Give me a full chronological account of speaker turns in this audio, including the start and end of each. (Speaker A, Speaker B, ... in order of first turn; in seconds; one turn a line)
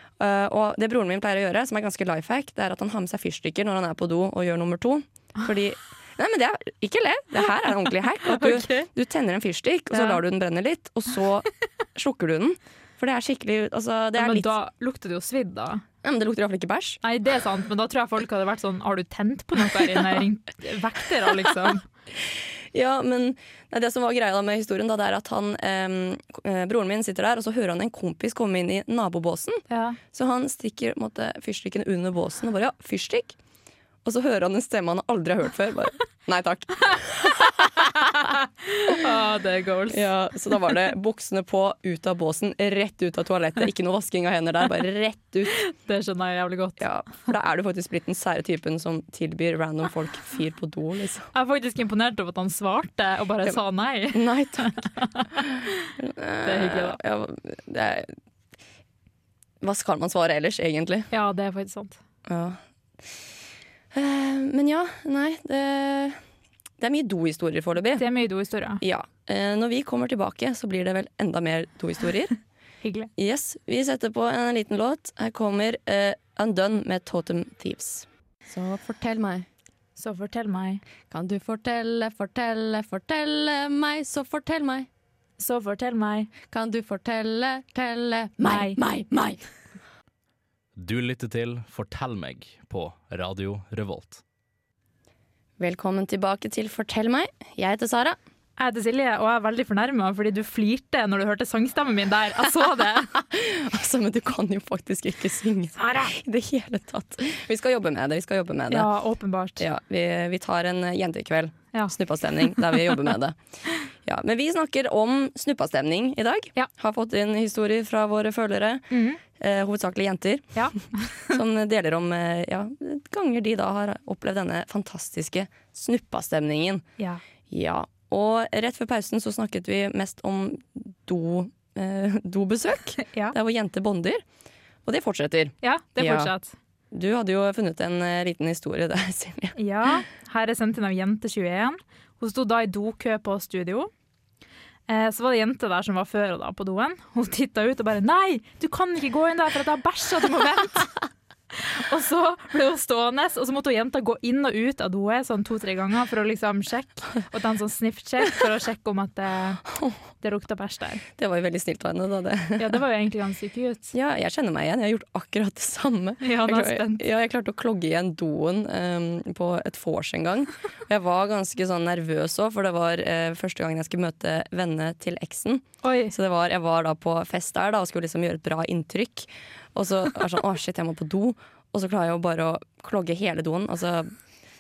Speaker A: 0.2-14.5
Speaker B: 8.2-8.9
Speaker B: 9.9-10.2
Speaker B: 14.2-15.8
Speaker A: 16.0-17.0
Speaker B: 17.0-21.9
Speaker A: 22.7-33.4
Speaker B: 29.7-30.0
Speaker A: 34.0-38.1
Speaker B: 38.3-40.1
Speaker A: 39.9-45.6
Speaker B: 45.5-46.9
Speaker A: 46.8-51.3
Speaker B: 51.3-55.7
Speaker A: 54.1-54.7
Speaker A: 56.0-58.1
Speaker B: 56.4-57.0
Speaker A: 59.6-61.1
Speaker B: 61.1-62.0
Speaker A: 62.3-62.6
Speaker A: 63.9-66.2
Speaker A: 66.8-68.1
Speaker B: 68.0-68.8
Speaker A: 68.8-72.3
Speaker B: 72.8-73.1
Speaker A: 73.2-79.5
Speaker B: 80.0-80.8
Speaker A: 81.1-84.9
Speaker B: 85.4-86.3
Speaker A: 86.5-89.4
Speaker B: 88.4-88.8
Speaker C: 90.8-94.2
Speaker A: 95.6-98.2
Speaker B: 98.6-103.2
Speaker A: 103.2-108.9
Speaker B: 105.8-106.1
Speaker B: 108.7-109.7
Speaker A: 109.6-113.4
Speaker A: 114.0-120.6
Speaker B: 118.9-119.2
Speaker B: 120.5-121.3
Speaker A: 121.3-126.8
Speaker A: 127.5-134.2
Speaker B: 133.0-133.3
Speaker A: 134.8-136.3
Speaker B: 135.6-136.6
Speaker A: 136.9-139.6
Speaker B: 139.6-143.9
Speaker B: 144.9-151.0
Speaker B: 151.5-159.6
Speaker B: 160.2-161.0
Speaker A: 161.2-162.8
Speaker B: 162.6-163.9
Speaker A: 163.9-184.1
Speaker B: 166.2-167.1
Speaker B: 175.8-176.2